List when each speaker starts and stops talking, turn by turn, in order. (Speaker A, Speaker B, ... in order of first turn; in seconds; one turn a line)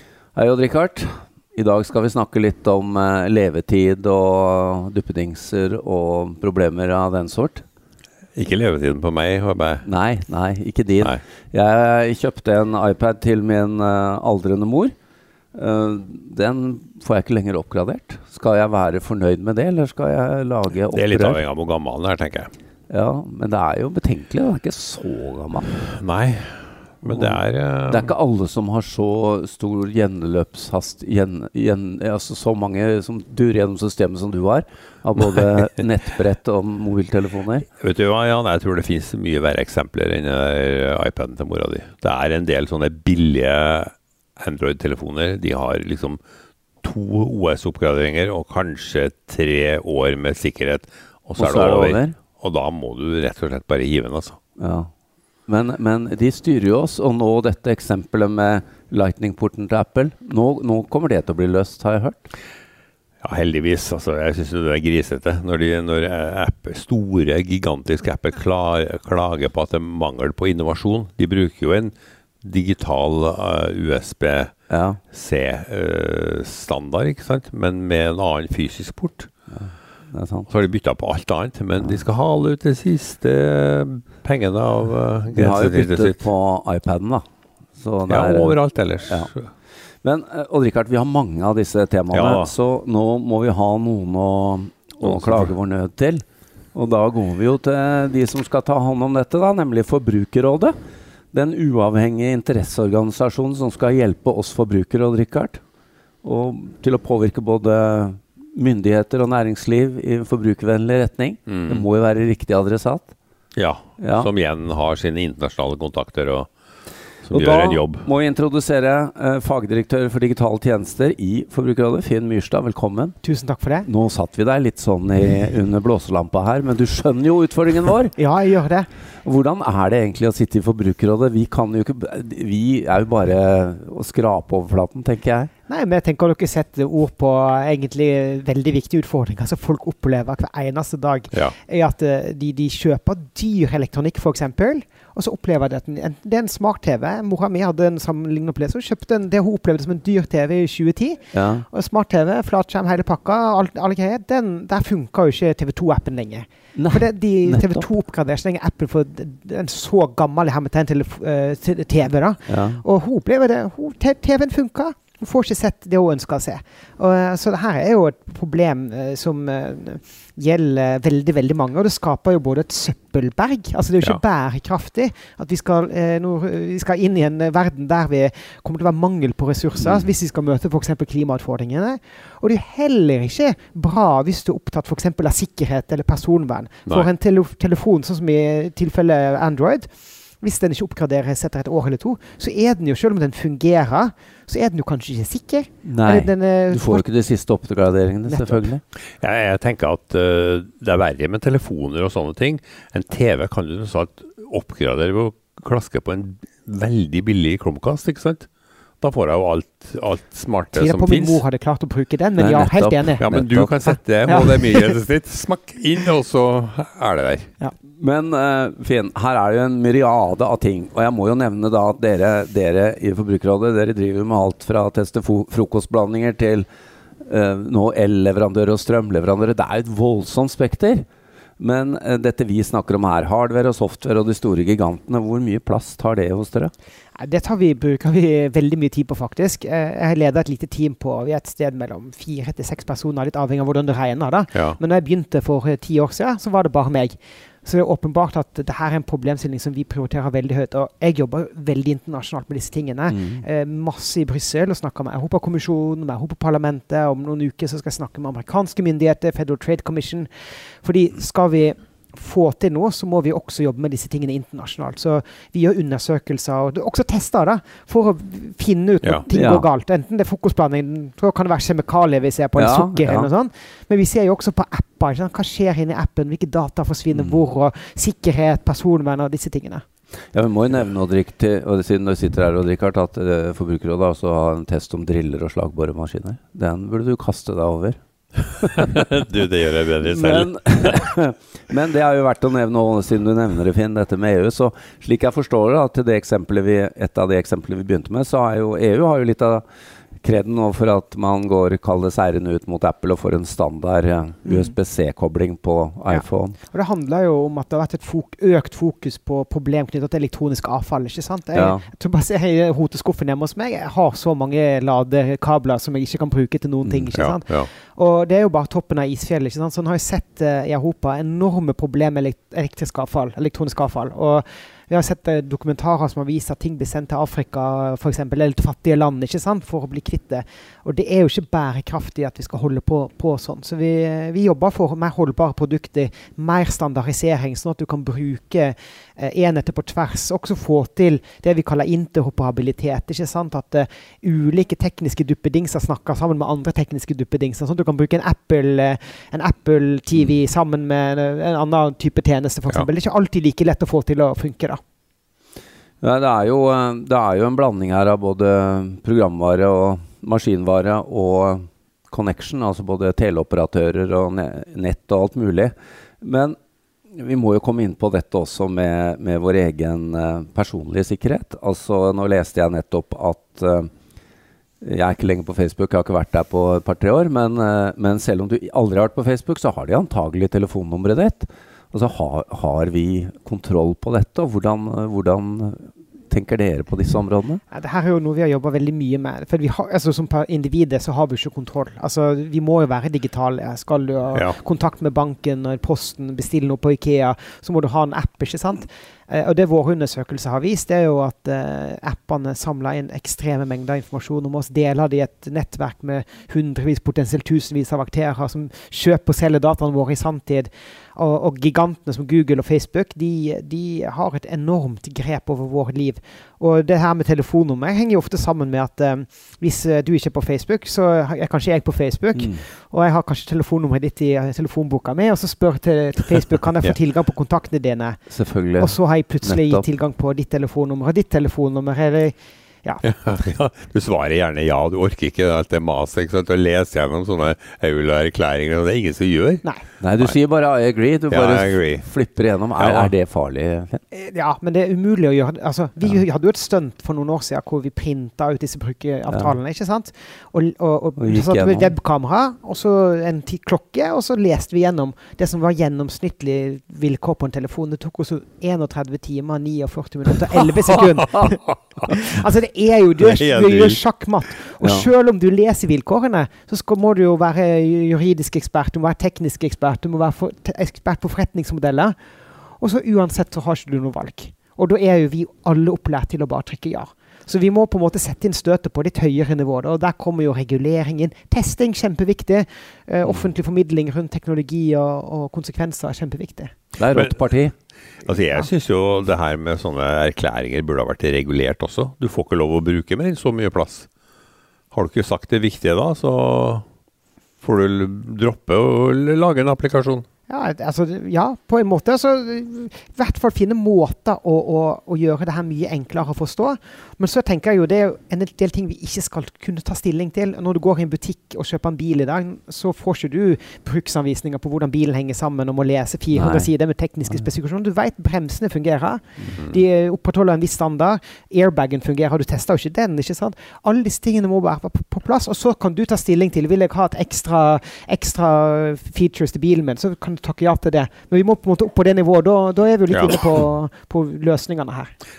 Speaker A: 0.3-7.6
Speaker B: 8.3-9.8
Speaker A: 9.8-14.9
Speaker A: 15.5-21.4
Speaker B: 20.9-22.5
Speaker A: 22.9-25.7
Speaker B: 25.9-28.1
Speaker A: 27.1-37.6
Speaker B: 37.8-46.2
Speaker B: 46.8-54.4
Speaker A: 51.4-52.1
Speaker A: 54.6-54.9
Speaker A: 55.5-62.3
Speaker B: 63.2-74.5
Speaker A: 74.7-75.0
Speaker B: 75.1-79.3
Speaker A: 79.5-80.5
Speaker B: 80.5-86.2
Speaker A: 85.3-87.2
Speaker A: 87.8-89.3
Speaker B: 88.1-89.5
Speaker A: 90.0-100.7
Speaker B: 92.1-92.5
Speaker B: 95.0-95.5
Speaker A: 101.3-105.6
Speaker A: 106.2-113.1
Speaker B: 111.5-111.8
Speaker B: 113.5-116.5
Speaker A: 114.0-114.3
Speaker B: 117.2-118.1
Speaker A: 117.3-123.1
Speaker C: 123.2-123.9
Speaker A: 123.8-128.1
Speaker C: 128.2-128.9
Speaker A: 129.2-135.5
Speaker C: 135.7-189.9
Speaker A: 151.3-151.7
Speaker A: 156.8-157.9
Speaker A: 162.5-162.8
Speaker C: 190.4-197.1
Speaker A: 195.8-198.8
Speaker C: 198.3-198.7
Speaker B: 199.2-208.5
Speaker B: 209.0-211.4
Speaker C: 210.7-213.3
Speaker A: 212.4-214.4
Speaker B: 213.2-217.5
Speaker C: 213.8-214.9
Speaker A: 218.0-226.7
Speaker A: 227.2-231.1
Speaker A: 231.6-236.7
Speaker C: 237.1-260.3
Speaker B: 244.5-244.8
Speaker A: 253.1-253.4
Speaker C: 260.8-279.8
Speaker A: 269.3-269.7
Speaker A: 272.6-273.3
Speaker A: 277.1-277.4
Speaker A: 280.3-288.0
Speaker A: 288.6-288.9
Speaker B: 288.9-290.9
Speaker A: 290.0-299.6
Speaker A: 300.2-306.6
Speaker C: 304.4-304.7
Speaker C: 306.1-354.8
Speaker A: 311.5-311.9
Speaker B: 317.1-317.7
Speaker A: 356.0-366.6
Speaker A: 367.1-373.9
Speaker A: 374.8-387.6
Speaker C: 387.7-428.2
Speaker A: 422.3-422.6
Speaker A: 428.3-429.8
Speaker C: 428.8-433.0
Speaker B: 433.0-439.6
Speaker A: 440.0-444.0
Speaker B: 441.3-442.1
Speaker B: 442.8-443.1
Speaker C: 444.1-472.1
Speaker A: 449.3-449.6
Speaker A: 451.2-451.9
Speaker B: 461.7-462.1
Speaker B: 463.2-464.0
Speaker A: 464.8-465.1
Speaker C: 472.8-486.8
Speaker A: 487.0-487.7
Speaker B: 487.1-487.4
Speaker B: 488.2-494.1
Speaker B: 494.9-496.8
Speaker B: 497.6-500.2
Speaker C: 500.5-535.1
Speaker A: 516.3-516.7
Speaker B: 533.1-533.4